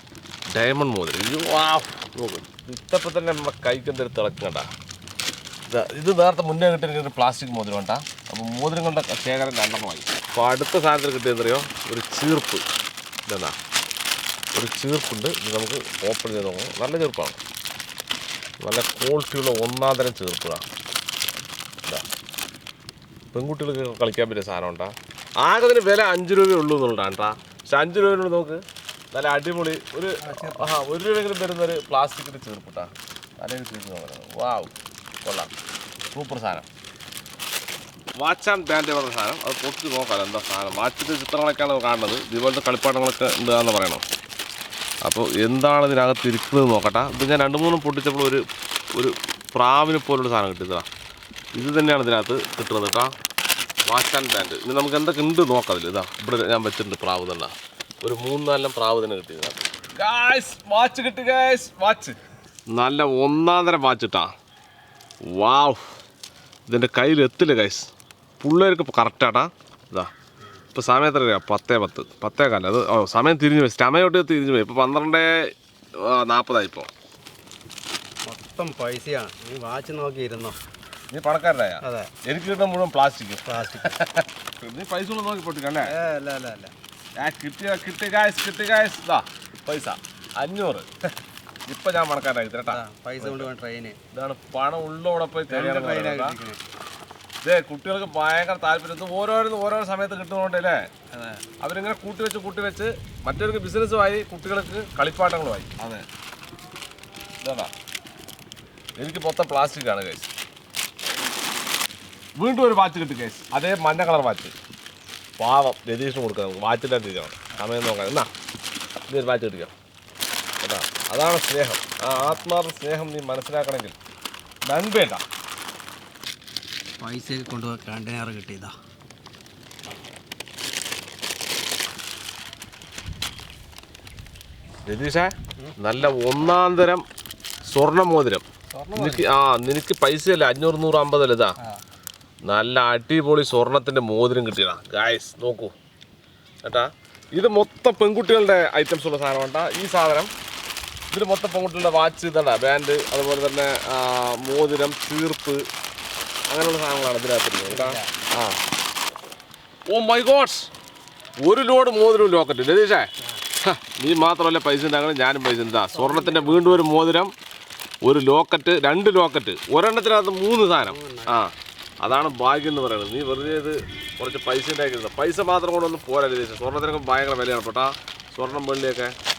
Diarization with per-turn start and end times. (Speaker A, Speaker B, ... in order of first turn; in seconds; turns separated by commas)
Speaker A: 0.5-4.7, Speaker A: 5.7-12.6, Speaker A: 13.3-13.6, Speaker A: 14.5-17.4, Speaker A: 18.6-20.6, Speaker A: 23.3-28.6, Speaker A: 29.1-34.7, Speaker B: 30.2-30.7, Speaker A: 35.2-35.5, Speaker A: 36.0-36.6, Speaker A: 38.2-44.0, Speaker A: 45.0-50.9, Speaker A: 51.5-53.1, Speaker A: 53.9-62.1, Speaker A: 62.7-64.3, Speaker A: 65.2-65.8, Speaker A: 66.7-67.9, Speaker A: 68.4-70.1, Speaker A: 70.7-76.9, Speaker B: 78.2-80.6, Speaker A: 81.1-85.9, Speaker B: 81.8-82.1, Speaker B: 83.5-84.0, Speaker B: 85.8-86.7, Speaker A: 87.2-91.0, Speaker A: 91.7-93.5, Speaker B: 92.7-94.0, Speaker A: 94.1-96.3, Speaker B: 95.5-96.6, Speaker A: 97.4-100.9, Speaker B: 101.1-101.4, Speaker A: 101.6-106.0, Speaker A: 107.4-107.7, Speaker A: 109.0-110.3, Speaker A: 112.4-114.5, Speaker A: 115.4-118.3, Speaker A: 119.1-119.7, Speaker A: 120.6-124.0, Speaker B: 122.2-122.5, Speaker A: 124.7-125.2, Speaker B: 127.0-128.7, Speaker A: 134.8-137.0, Speaker A: 137.7-138.4, Speaker B: 138.7-139.3, Speaker A: 138.9-141.5, Speaker A: 142.4-145.7, Speaker A: 146.6-150.3, Speaker A: 151.1-155.7, Speaker A: 156.5-158.6, Speaker B: 157.7-158.1, Speaker A: 159.9-160.7, Speaker A: 161.4-163.1, Speaker A: 163.6-167.3, Speaker B: 165.9-166.8, Speaker A: 168.0-179.1, Speaker B: 170.8-171.4